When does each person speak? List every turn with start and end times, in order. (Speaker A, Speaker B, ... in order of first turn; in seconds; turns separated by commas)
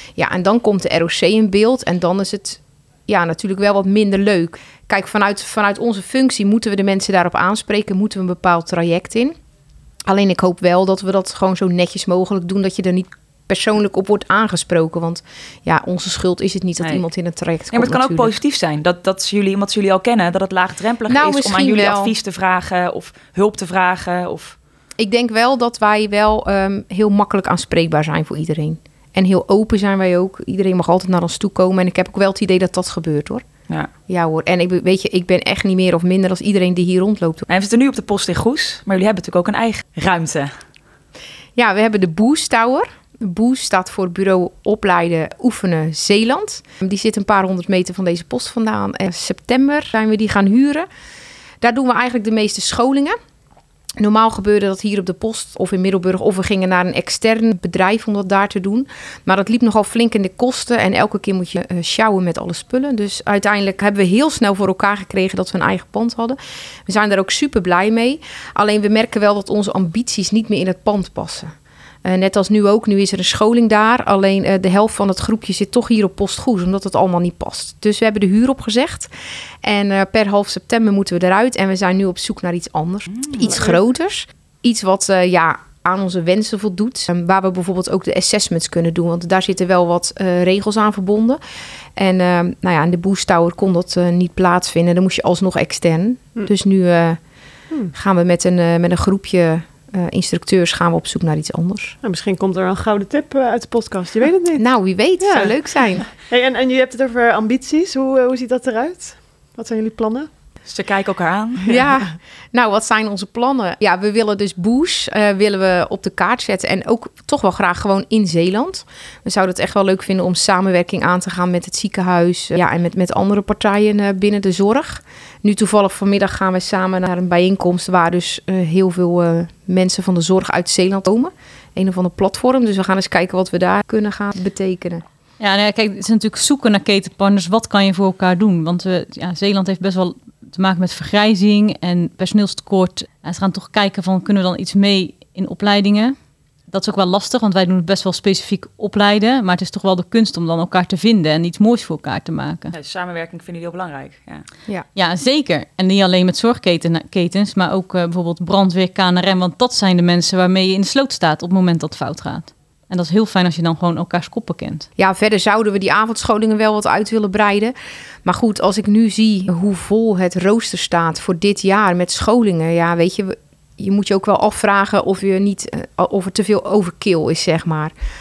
Speaker A: 0.2-9.3, Speaker A: 10.1-18.3, Speaker B: 17.7-24.6, Speaker A: 21.1-22.1, Speaker A: 25.0-33.4, Speaker A: 34.1-37.5, Speaker B: 37.5-40.5, Speaker A: 41.5-50.9, Speaker A: 51.6-53.2, Speaker A: 54.0-71.5, Speaker A: 72.0-79.1, Speaker A: 79.6-91.4, Speaker B: 83.1-83.5, Speaker C: 83.4-83.8, Speaker A: 92.0-97.2, Speaker A: 97.9-102.0, Speaker C: 102.0-110.3, Speaker A: 104.5-106.0, Speaker B: 110.6-111.8, Speaker A: 111.7-135.0, Speaker D: 135.4-146.1, Speaker D: 146.7-152.7, Speaker B: 152.7-154.4, Speaker D: 154.9-164.9, Speaker A: 165.0-167.7, Speaker A: 168.2-177.9